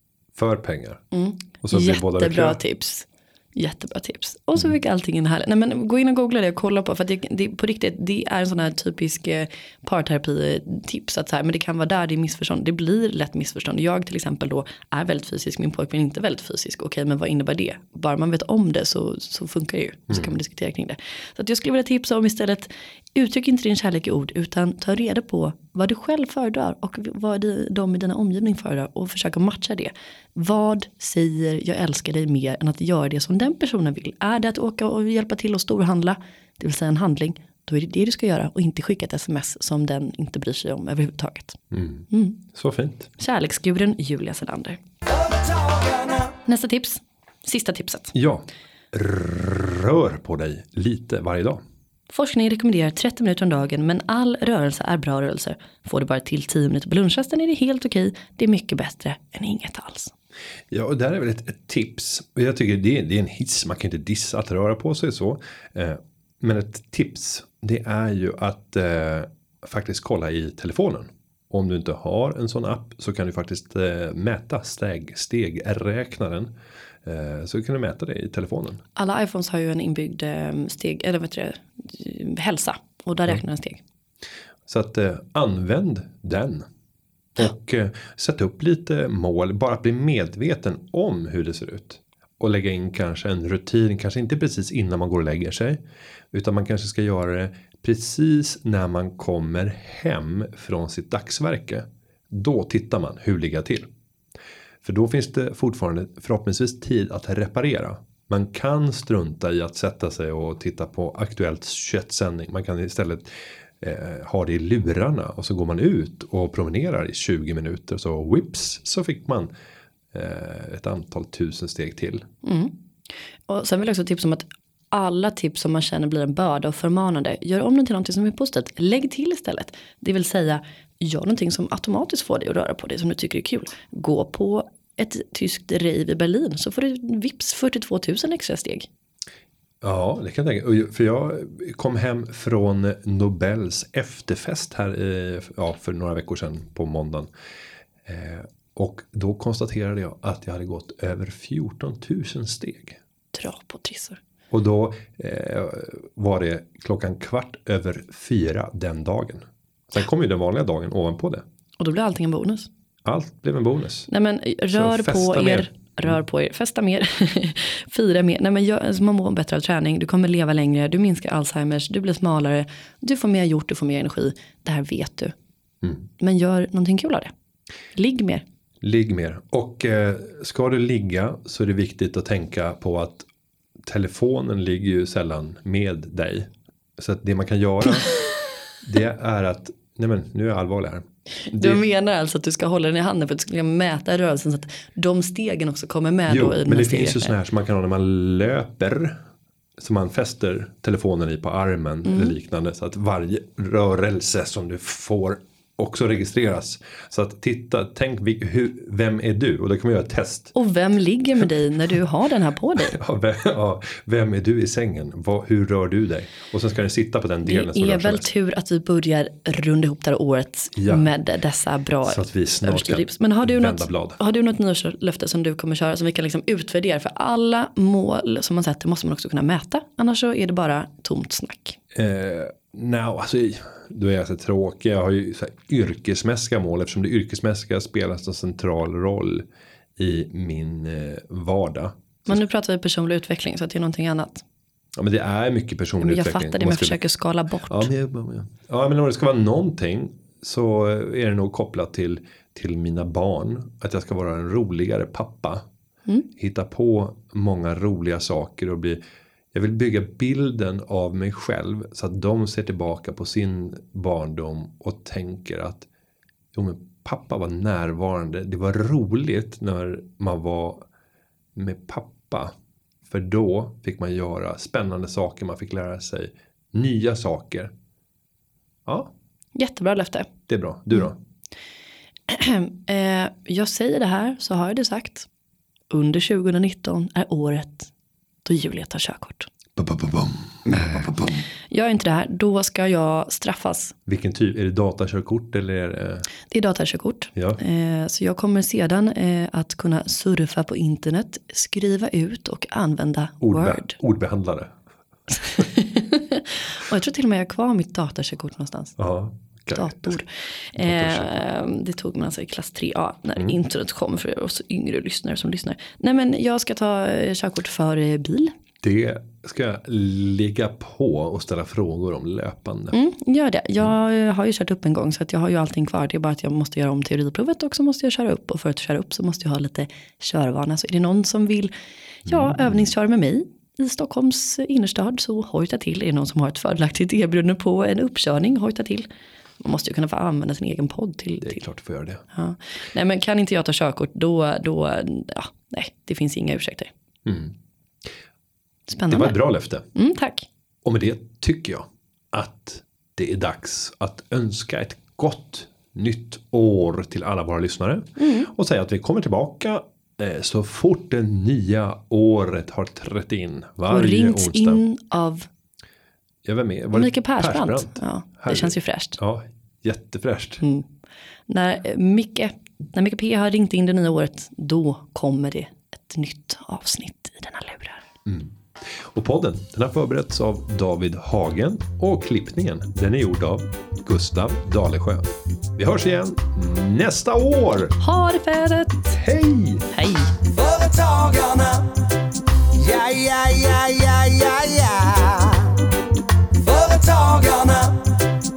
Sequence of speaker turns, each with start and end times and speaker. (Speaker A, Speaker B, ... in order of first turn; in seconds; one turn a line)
Speaker A: 0.3-1.0
Speaker B: 1.1-41.6
Speaker A: 1.6-2.6
Speaker A: 41.7-43.1
Speaker B: 42.1-42.4
Speaker B: 43.2-44.8
Speaker C: 45.1-46.3
Speaker B: 46.4-48.1
Speaker A: 48.1-51.6
Speaker B: 52.1-60.1
Speaker A: 60.7-76.5
Speaker A: 77.0-78.8
Speaker B: 79.0-83.8
Speaker A: 84.7-86.7
Speaker A: 87.3-95.8
Speaker A: 96.3-103.9
Speaker A: 104.8-113.3
Speaker A: 113.8-119.5
Speaker A: 120.1-122.2
Speaker B: 122.4-122.7
Speaker B: 123.5-138.9
Speaker A: 139.8-147.3
Speaker A: 148.0-153.0
Speaker B: 153.3-154.2
Speaker A: 154.5-161.4
Speaker B: 161.8-162.7
Speaker A: 163.0-164.1
Speaker B: 164.1-175.3
Speaker A: 164.7-166.2
Speaker B: 176.2-177.3
Speaker B: 177.9-178.4
Speaker A: 178.8-183.3
Speaker A: 183.8-188.2
Speaker A: 188.8-191.8
Speaker B: 191.5-197.3
Speaker A: 196.3-199.2
Speaker A: 199.8-210.5
Speaker B: 202.0-202.3
Speaker B: 210.5-213.0
Speaker A: 212.8-218.3
Speaker B: 217.4-231.8
Speaker A: 220.8-221.1
Speaker A: 222.0-224.2
Speaker A: 231.9-239.4
Speaker A: 240.0-242.4
Speaker B: 242.3-244.4
Speaker A: 244.9-247.0
Speaker B: 246.0-247.9
Speaker A: 247.7-255.6
Speaker A: 256.4-259.0
Speaker A: 259.5-265.9
Speaker A: 266.5-270.8
Speaker A: 271.5-272.5
Speaker A: 273.1-277.7
Speaker A: 278.9-279.1
Speaker B: 279.6-280.3
Speaker A: 280.5-281.1
Speaker B: 282.3-285.3
Speaker B: 285.9-287.9
Speaker B: 288.4-289.5
Speaker A: 289.8-291.4
Speaker B: 290.8-293.9
Speaker A: 294.1-296.3
Speaker B: 296.5-303.9
Speaker A: 303.4-304.7
Speaker B: 305.4-309.0
Speaker A: 309.0-310.2
Speaker B: 309.7-318.5
Speaker A: 310.7-311.4
Speaker A: 318.8-322.9
Speaker B: 322.9-331.7
Speaker B: 332.2-339.1
Speaker A: 332.2-332.9
Speaker B: 339.6-341.6
Speaker A: 341.4-342.2
Speaker B: 342.3-346.9
Speaker A: 347.2-347.5
Speaker B: 348.9-349.4
Speaker A: 349.1-349.9
Speaker B: 349.9-350.5
Speaker A: 350.8-364.8
Speaker B: 358.2-358.5
Speaker B: 363.9-365.5
Speaker A: 366.4-370.6
Speaker B: 366.9-369.2
Speaker B: 370.6-370.9
Speaker B: 371.5-378.0
Speaker A: 378.2-387.9
Speaker B: 388.0-389.2
Speaker A: 389.1-389.9
Speaker B: 389.9-390.3
Speaker C: 390.4-391.9
Speaker C: 392.7-395.8
Speaker C: 396.5-398.1